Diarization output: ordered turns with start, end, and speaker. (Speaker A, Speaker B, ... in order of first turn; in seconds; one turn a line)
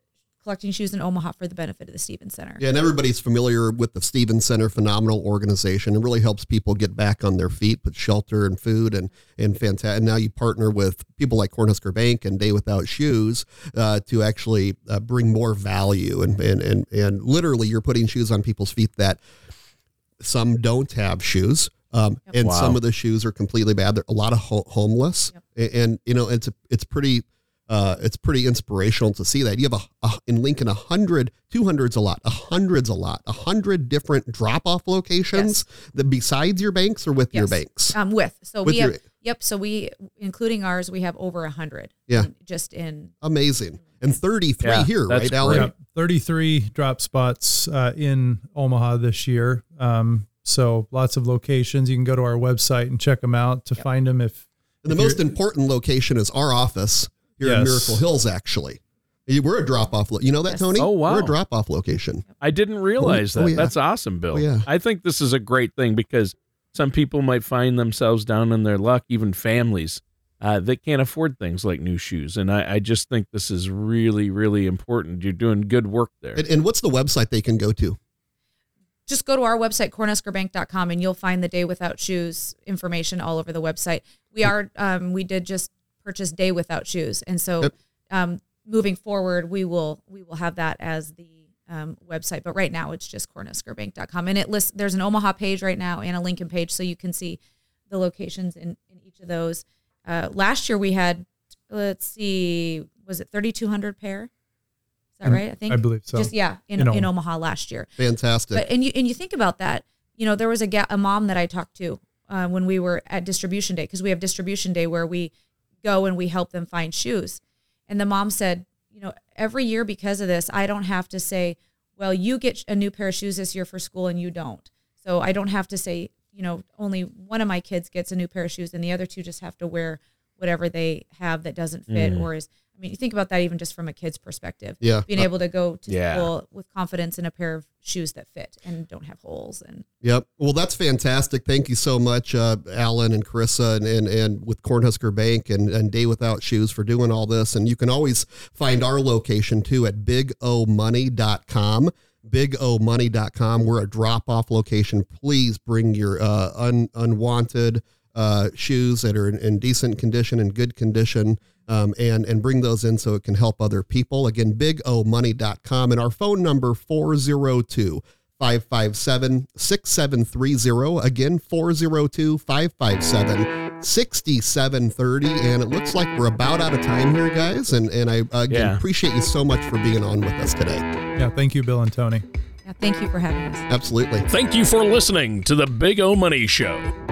Speaker A: 0.4-2.6
Speaker B: 2.6-19.2
Speaker B: 20.2-38.0
Speaker C: 22.4-22.8
Speaker A: 37.3-43.1
Speaker B: 38.6-39.0
Speaker B: 43.2-45.7
Speaker C: 44.6-45.7
Speaker D: 45.5-55.2
Speaker B: 54.8-62.2
Speaker D: 57.4-58.0
Speaker C: 60.8-61.3
Speaker C: 62.4-76.4
Speaker B: 63.0-63.7
Speaker B: 64.3-64.7
Speaker B: 76.3-78.0
Speaker A: 79.1-104.3
Speaker A: 105.2-107.9
Speaker D: 105.2-107.1
Speaker B: 108.0-108.6
Speaker A: 108.5-115.3
Speaker A: 115.8-139.8
Speaker C: 131.9-132.3
Speaker B: 134.8-135.3
Speaker C: 135.9-136.3
Speaker B: 140.0-180.8
Speaker C: 178.5-178.8
Speaker D: 181.2-182.2
Speaker A: 182.6-183.7
Speaker B: 183.7-184.2
Speaker C: 184.3-186.9